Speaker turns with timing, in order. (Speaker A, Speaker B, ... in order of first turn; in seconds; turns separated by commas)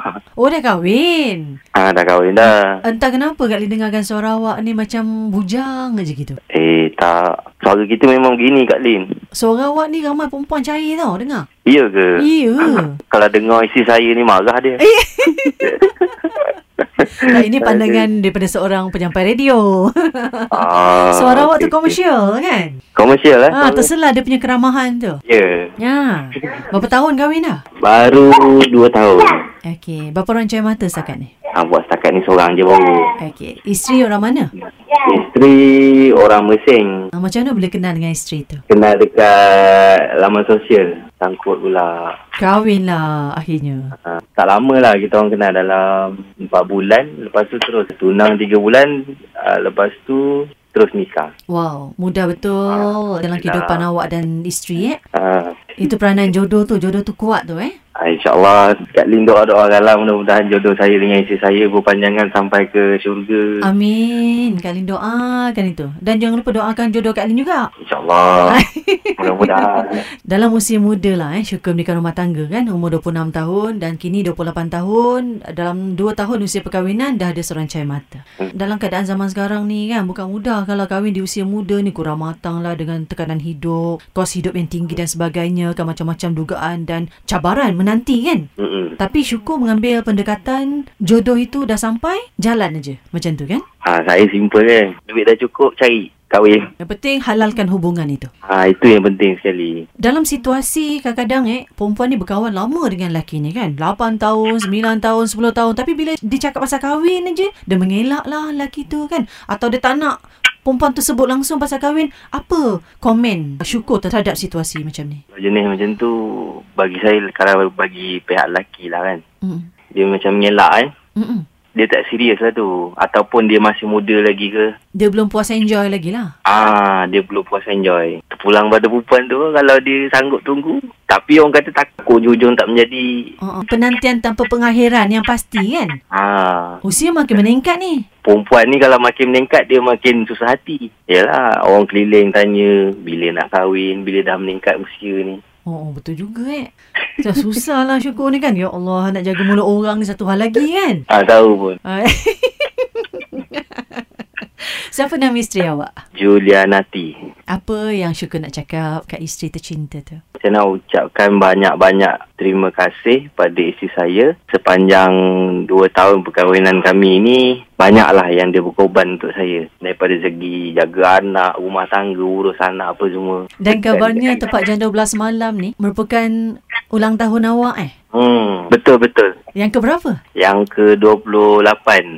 Speaker A: 0.4-1.6, Speaker B: 1.8-2.8, Speaker A: 2.8-6.4, Speaker B: 6.5-9.2, Speaker A: 9.3-11.5, Speaker B: 11.7-12.2, Speaker A: 12.2-13.0, Speaker B: 13.0-14.8, Speaker A: 14.8-15.7, Speaker B: 15.6-18.1, Speaker A: 17.2-22.8, Speaker B: 20.5-22.0, Speaker B: 22.9-23.9, Speaker A: 23.5-25.2, Speaker B: 25.3-25.7, Speaker A: 25.8-27.6, Speaker B: 27.8-29.3, Speaker A: 29.7-31.3, Speaker B: 31.6-33.1, Speaker A: 33.2-34.5, Speaker B: 34.9-37.0, Speaker A: 37.1-38.6, Speaker B: 38.7-42.2, Speaker A: 42.4-43.9, Speaker B: 44.0-51.3, Speaker A: 51.5-55.0, Speaker B: 52.7-53.8, Speaker B: 55.1-55.6, Speaker A: 55.8-57.8, Speaker B: 58.0-63.4, Speaker A: 63.6-67.7, Speaker B: 67.8-68.6, Speaker A: 68.5-69.5, Speaker B: 69.2-70.0, Speaker A: 70.3-88.5, Speaker B: 88.6-89.0, Speaker A: 89.0-93.6, Speaker B: 93.8-96.7, Speaker A: 96.8-98.3, Speaker B: 98.5-99.8, Speaker A: 100.0-110.1, Speaker A: 110.7-115.2, Speaker B: 115.3-119.2, Speaker A: 119.4-119.7, Speaker B: 119.9-120.9, Speaker A: 121.2-121.5, Speaker B: 121.8-124.7, Speaker A: 125.0-126.3, Speaker B: 126.5-133.1, Speaker A: 133.4-136.0, Speaker B: 136.1-136.8, Speaker A: 136.8-138.1, Speaker B: 138.2-145.4, Speaker A: 145.7-146.7, Speaker A: 147.2-151.1, Speaker B: 151.1-151.8, Speaker A: 151.8-156.0, Speaker B: 156.2-157.2, Speaker A: 157.5-160.2, Speaker B: 160.4-165.2, Speaker B: 165.7-174.5, Speaker A: 173.6-177.9, Speaker B: 178.1-179.3, Speaker A: 179.6-180.2, Speaker B: 180.4-182.1